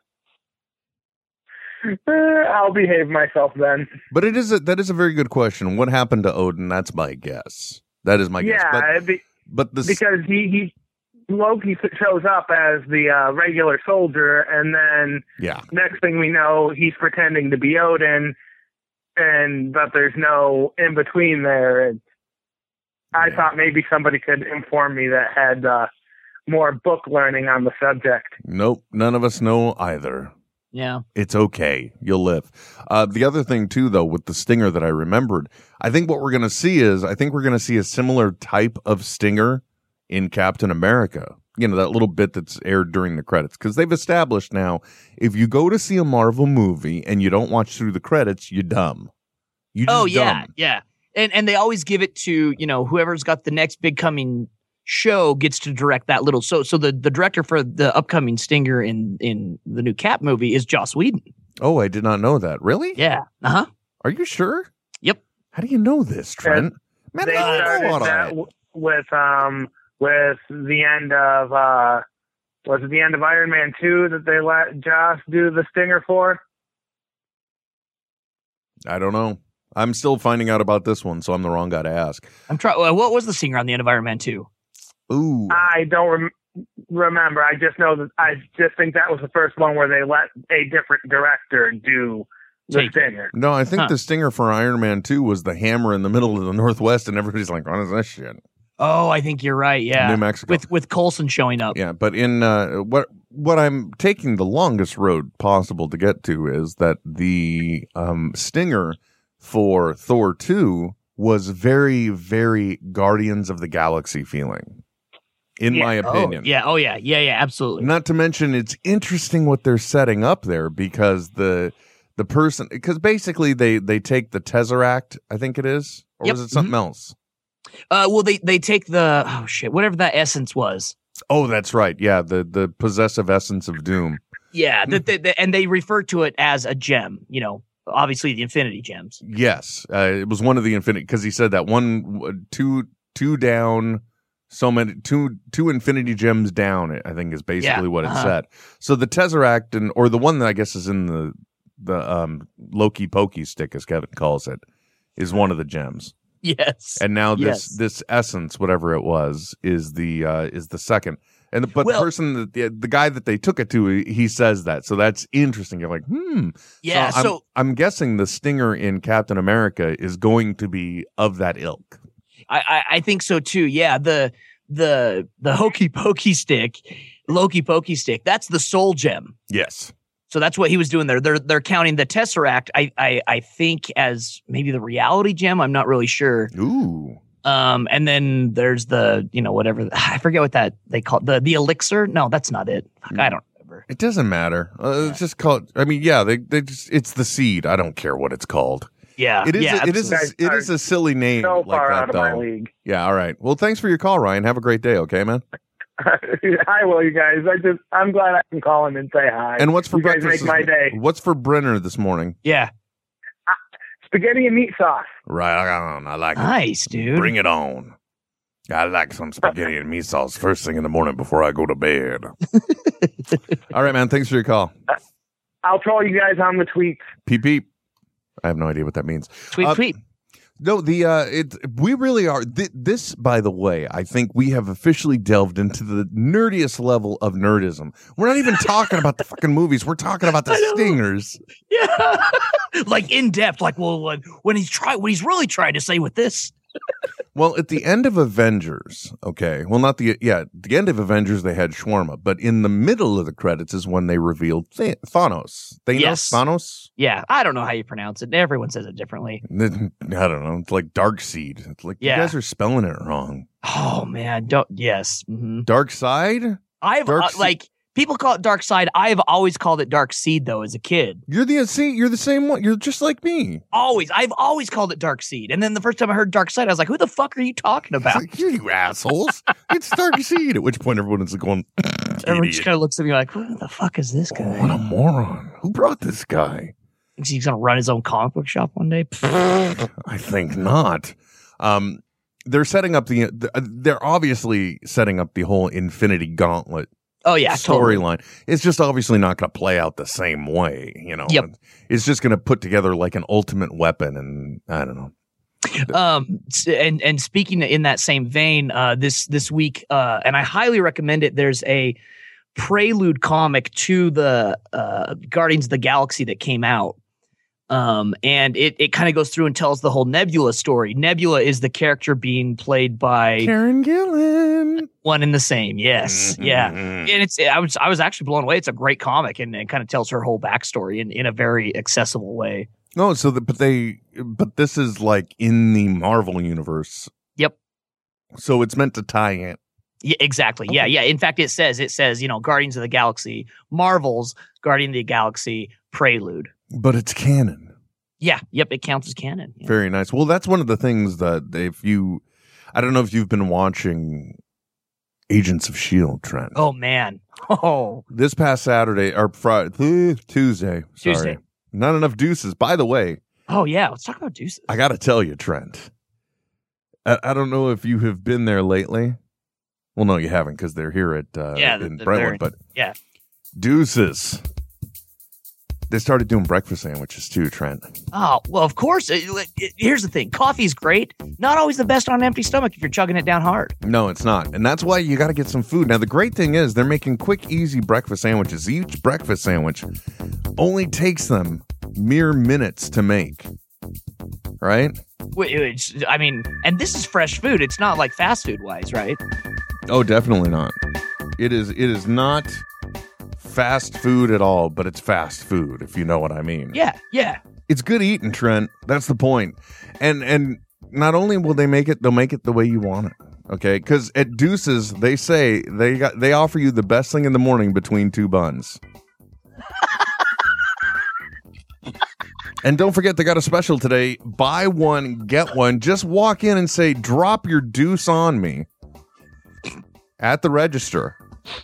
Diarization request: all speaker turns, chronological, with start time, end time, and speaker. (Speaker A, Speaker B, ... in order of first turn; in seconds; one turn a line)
Speaker A: 1.9-3.9
Speaker B: 4.1-8.9
Speaker A: 8.4-9.2
Speaker B: 9.5-10.0
Speaker A: 9.8-10.7
Speaker A: 11.3-18.4
Speaker B: 15.4-15.7
Speaker A: 19.2-22.0
Speaker A: 23.1-25.9
Speaker B: 23.2-23.5
Speaker A: 26.5-28.4
Speaker B: 28.4-30.3
Speaker C: 30.7-31.0
Speaker B: 31.1-49.1
Speaker B: 49.7-50.5
Speaker C: 49.9-61.2
Speaker B: 61.6-63.0
Speaker C: 63.0-63.7
Speaker B: 64.0-64.7
Speaker B: 65.5-68.3
Speaker A: 67.2-72.0
Speaker C: 67.3-67.9
Speaker A: 72.7-76.4
Speaker B: 78.9-82.3
Speaker C: 82.5-84.5
Speaker B: 85.1-85.7
Speaker A: 85.5-86.3
Speaker A: 86.9-93.3
Speaker C: 92.7-93.0
Speaker B: 93.3-98.4
Speaker C: 98.8-101.8
Speaker B: 100.0-100.7
Speaker B: 101.7-114.8
Speaker B: 115.6-116.5
Speaker C: 116.0-117.9
Speaker B: 117.8-127.2
Speaker C: 126.2-126.7
Speaker C: 127.9-130.9
Speaker B: 131.3-134.2
Speaker C: 134.5-139.2
Speaker B: 139.2-154.6
Speaker C: 147.6-148.3
Speaker B: 155.2-156.1
Speaker C: 156.4-157.8
Speaker B: 157.0-172.0
Speaker C: 161.8-162.1
Speaker C: 166.8-167.4
Speaker C: 172.5-179.3
Speaker B: 179.5-179.9
Speaker C: 180.3-186.5
Speaker B: 186.5-187.2
Speaker C: 187.4-193.8
Speaker B: 193.9-198.9
Speaker C: 199.2-200.2
Speaker B: 199.4-205.4
Speaker A: 200.1-200.7
Speaker A: 201.4-202.7
Speaker A: 206.0-211.0
Speaker B: 209.6-212.4
Speaker C: 212.4-212.7
Speaker A: 213.5-215.1
Speaker B: 215.3-217.9
Speaker C: 216.4-217.3
Speaker B: 218.7-222.3
Speaker B: 223.7-224.7
Speaker A: 225.6-227.1
Speaker B: 227.3-227.7
Speaker B: 228.4-229.9
Speaker C: 229.5-230.0
Speaker B: 230.6-241.4
Speaker C: 240.5-241.0
Speaker C: 241.7-246.5
Speaker B: 247.3-256.9
Speaker C: 255.9-256.4
Speaker C: 257.0-259.4
Speaker B: 259.4-263.5
Speaker C: 262.0-262.3
Speaker C: 263.6-265.7
Speaker B: 265.6-267.5
Speaker C: 266.8-271.2
Speaker B: 271.3-273.6
Speaker C: 273.7-278.2
Speaker B: 278.1-282.7
Speaker C: 282.2-284.8
Speaker B: 284.3-286.7
Speaker C: 287.2-289.8
Speaker B: 289.9-296.9
Speaker C: 297.2-298.0
Speaker B: 297.5-305.1
Speaker C: 305.7-312.0
Speaker C: 312.6-317.0
Speaker C: 317.7-323.5
Speaker B: 323.4-324.9
Speaker C: 325.0-332.7
Speaker B: 326.0-327.1
Speaker B: 332.9-337.1
Speaker B: 338.4-339.6
Speaker C: 340.0-346.5
Speaker B: 346.7-347.7
Speaker C: 348.2-349.8
Speaker B: 349.6-352.2
Speaker B: 352.7-354.4
Speaker B: 355.3-356.6
Speaker C: 356.6-358.0
Speaker B: 358.1-363.2
Speaker C: 361.0-361.4
Speaker C: 363.5-364.7
Speaker B: 364.7-365.9
Speaker B: 367.1-369.2
Speaker B: 370.0-372.6
Speaker C: 371.6-372.9
Speaker B: 373.6-374.4
Speaker B: 375.9-377.9
Speaker C: 378.1-383.7
Speaker B: 383.8-389.9
Speaker B: 390.6-393.5
Speaker B: 394.6-395.0
Speaker C: 395.4-399.2
Speaker B: 399.9-400.8
Speaker B: 401.4-402.6
Speaker B: 403.4-406.8
Speaker C: 406.7-407.4
Speaker B: 407.7-418.8
Speaker B: 422.6-428.7
Speaker B: 430.2-431.2